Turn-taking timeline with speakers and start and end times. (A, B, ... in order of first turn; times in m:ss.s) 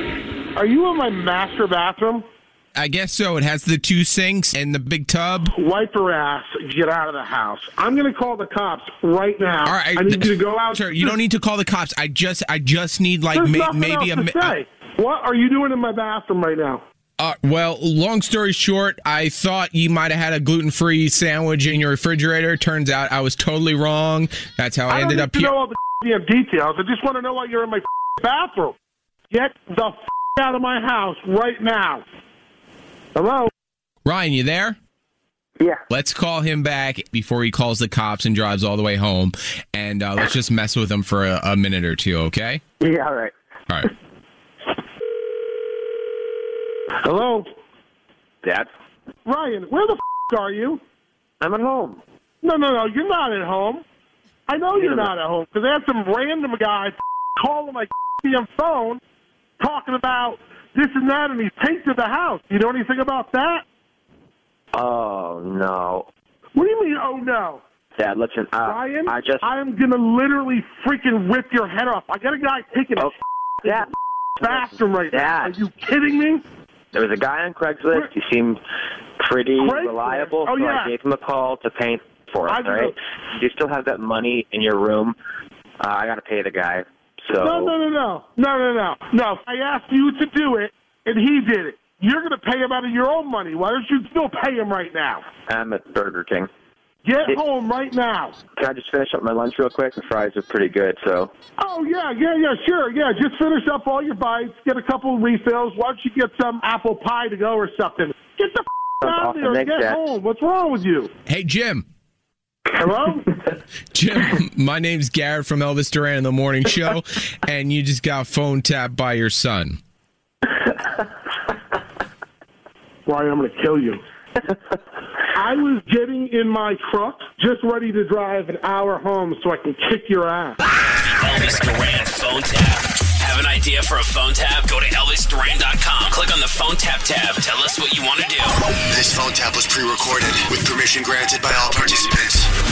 0:00.6-0:02.2 A
0:02.8-0:05.5 B
0:05.6-0:11.2 A
0:09.6-0:14.6 B
0:13.3-0:16.8 A
0:17.2-0:25.6 B
0:24.9-0:28.8 A
0:29.3-0:32.0 A
0:33.2-0:33.5 A
0:34.0-0:34.8 B
0:35.9-0:42.6 B
0:42.8-0:43.3 C
0:47.0-0:47.5 A
0:49.3-0:50.8 A
0:51.4-0:52.0 C
0:52.4-0:53.8 A
0:54.5-0:59.0 A
0:54.8-0:55.1 C
0:59.6-1:03.6 A
1:04.8-1:06.1 C
1:06.6-1:07.6 A
1:08.0-1:09.5 C
1:08.6-1:13.8 A
1:14.4-1:15.5 C
1:14.4-1:16.4 A
1:16.9-1:18.6 C
1:19.2-1:25.2 C
1:19.6-1:20.9 A
1:22.5-1:23.0 A
1:25.8-1:27.7 C
1:27.4-1:35.2 A
1:35.5-1:36.5 C
1:37.0-1:38.4 A
1:38.6-1:41.3 C
1:41.6-1:51.1 A
1:49.0-1:50.0 C
1:51.3-1:51.8 B
1:52.8-1:53.3 A
1:53.9-1:59.8 B
2:03.1-2:04.0 A
2:05.4-2:10.6 A
2:10.9-2:18.6 D
2:18.9-2:22.5 E